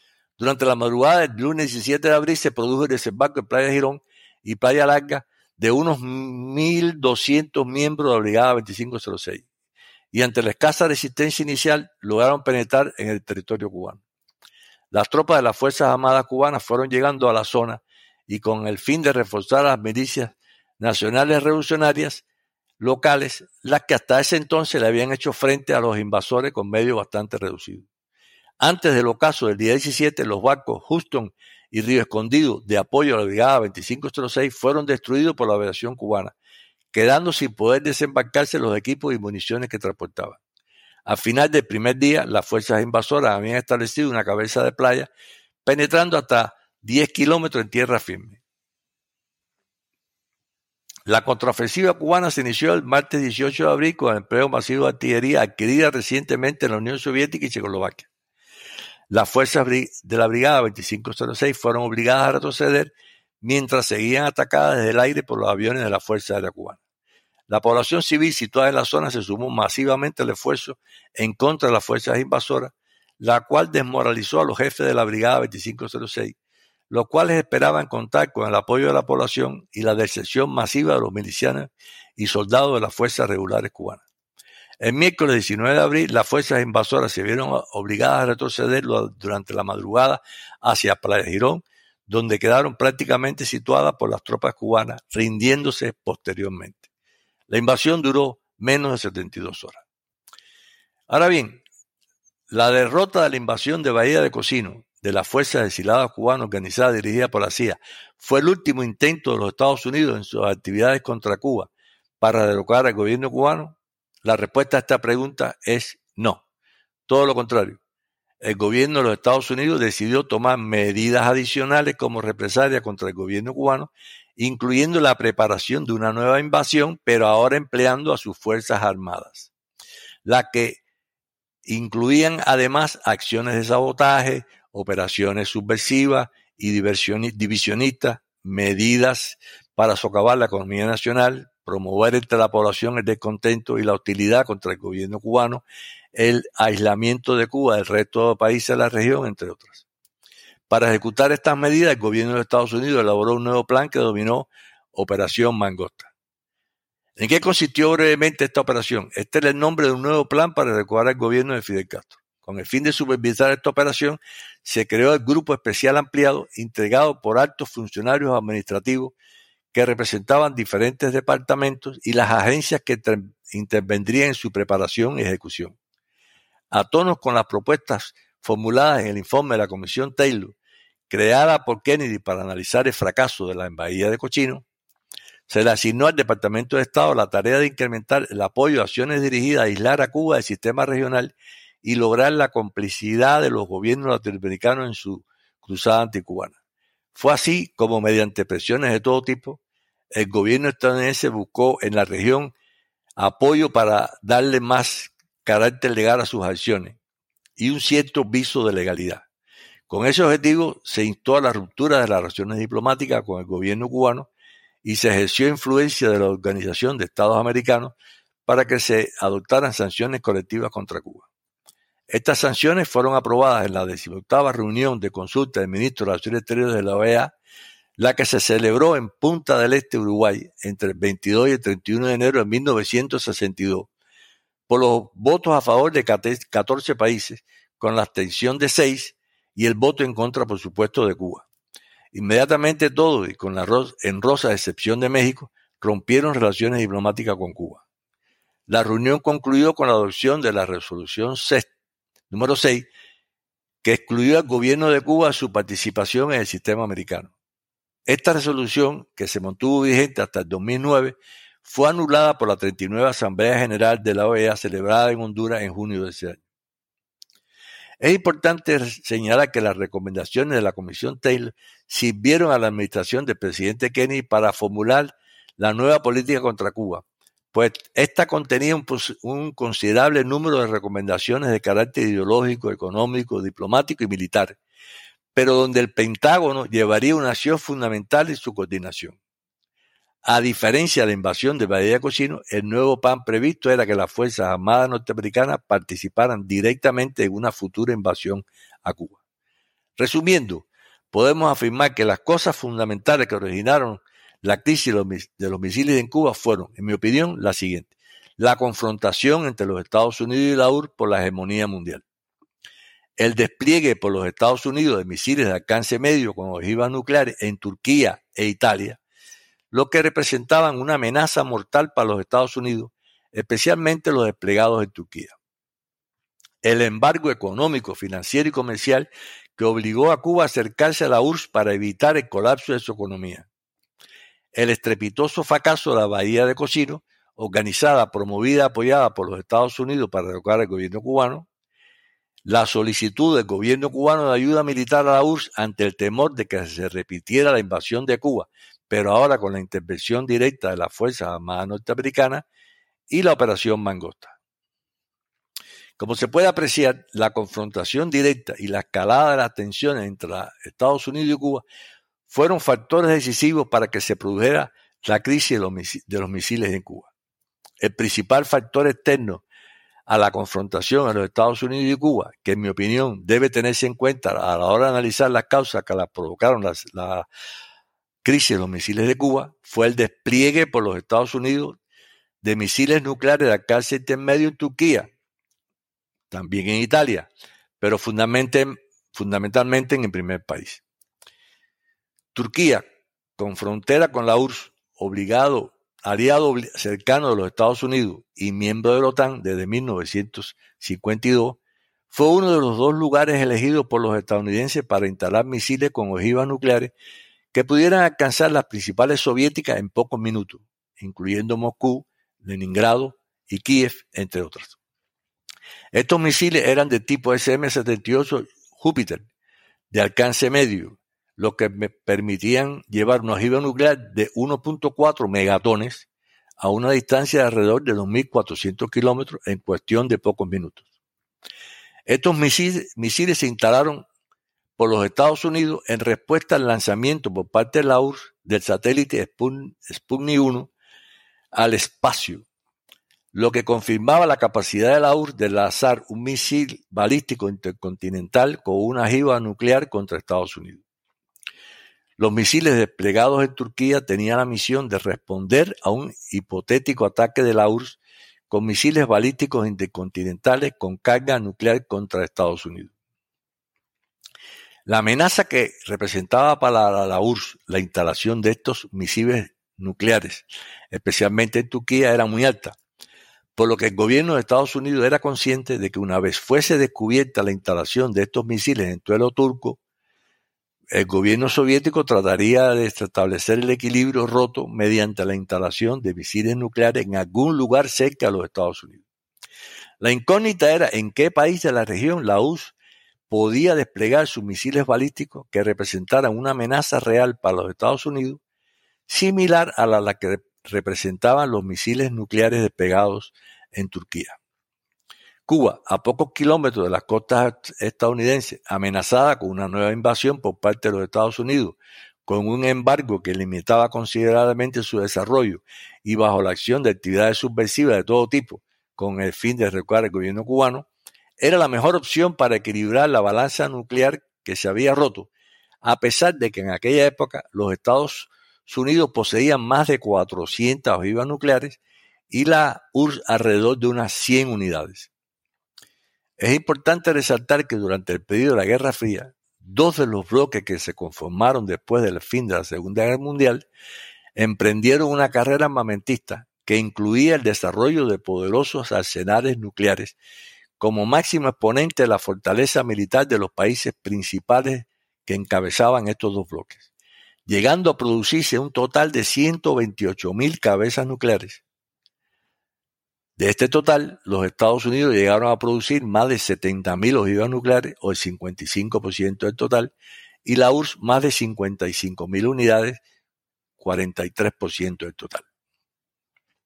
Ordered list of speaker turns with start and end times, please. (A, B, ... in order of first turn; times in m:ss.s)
0:00.4-0:09.4 A
0:10.1-0:14.0 A
0:14.9-0:22.2 A
0:22.8-0:27.8 A
0:28.6-0:36.3 A
0:36.9-0:40.4 A
0:41.0-0:45.1 A
0:45.6-0:48.4 A
0:51.0-0:58.1 A
0:59.1-1:06.8 A
1:07.5-1:16.3 A
1:16.9-1:24.0 A
1:24.8-1:36.8 A
1:37.5-1:39.8 A
1:41.1-1:41.6 A
1:42.5-1:56.4 A
1:57.1-1:57.8 A
1:58.4-2:09.5 A
2:10.2-2:10.8 A
2:11.6-2:29.8 A
2:30.7-2:36.1 A
2:37.2-2:49.1 A
2:49.7-2:55.8 A
2:56.7-3:00.5 A
3:01.1-3:04.6 A
3:05.5-3:16.5 A
3:17.1-3:19.6 A
3:20.1-3:22.5 A
3:23.2-3:27.0 A
3:27.6-3:29.2 A
3:29.9-3:34.3 A
3:34.8-3:37.9 A
3:38.4-3:41.2 A
3:42.1-3:47.3 A
3:48.0-3:53.9 A
3:54.7-4:01.4 A
4:02.1-4:07.8 A
4:08.7-4:11.7 A
4:12.3-4:12.9 A
4:13.8-4:17.3 A
4:18.1-4:26.4 A
4:28.0-4:44.6 A
4:45.3-4:49.2 A
4:50.2-4:59.2 A
5:00.0-5:12.0 A
5:13.2-5:19.0 A
5:19.7-5:25.4 A
5:26.6-5:33.5 A
5:34.5-5:41.4 A
5:42.4-5:52.4 A
5:53.1-5:54.3 A
5:56.0-6:01.6 A
6:02.3-6:07.1 A
6:07.8-6:09.4 A
6:10.1-6:17.2 A
6:18.2-6:21.8 A
6:22.4-6:25.1 A
6:26.3-6:30.8 A
6:32.3-6:32.8 A
6:33.4-6:41.6 A
6:42.1-6:46.9 A
6:47.5-6:54.8 A
6:55.9-6:59.2 A
6:59.9-7:06.0 A
7:06.6-7:10.8 A
7:12.1-7:14.0 A
7:14.8-7:20.7 A
7:21.5-7:22.4 A
7:23.3-7:30.8 A
7:32.2-7:38.0 A
7:38.5-7:42.9 A
7:44.8-7:52.8 A
7:53.6-7:59.8 A
8:00.9-8:09.0 A
8:10.0-8:12.7 A
8:13.3-8:18.4 A
8:19.1-8:24.4 A
8:25.4-8:40.9 A
8:41.4-8:45.3 A
8:45.8-8:51.8 A
8:52.3-8:55.1 A
8:56.4-9:03.6 A
9:04.4-9:10.1 A
9:10.8-9:16.9 A
9:17.5-9:21.6 A
9:23.4-9:29.9 A
9:30.4-9:33.0 A
9:33.8-9:35.4 A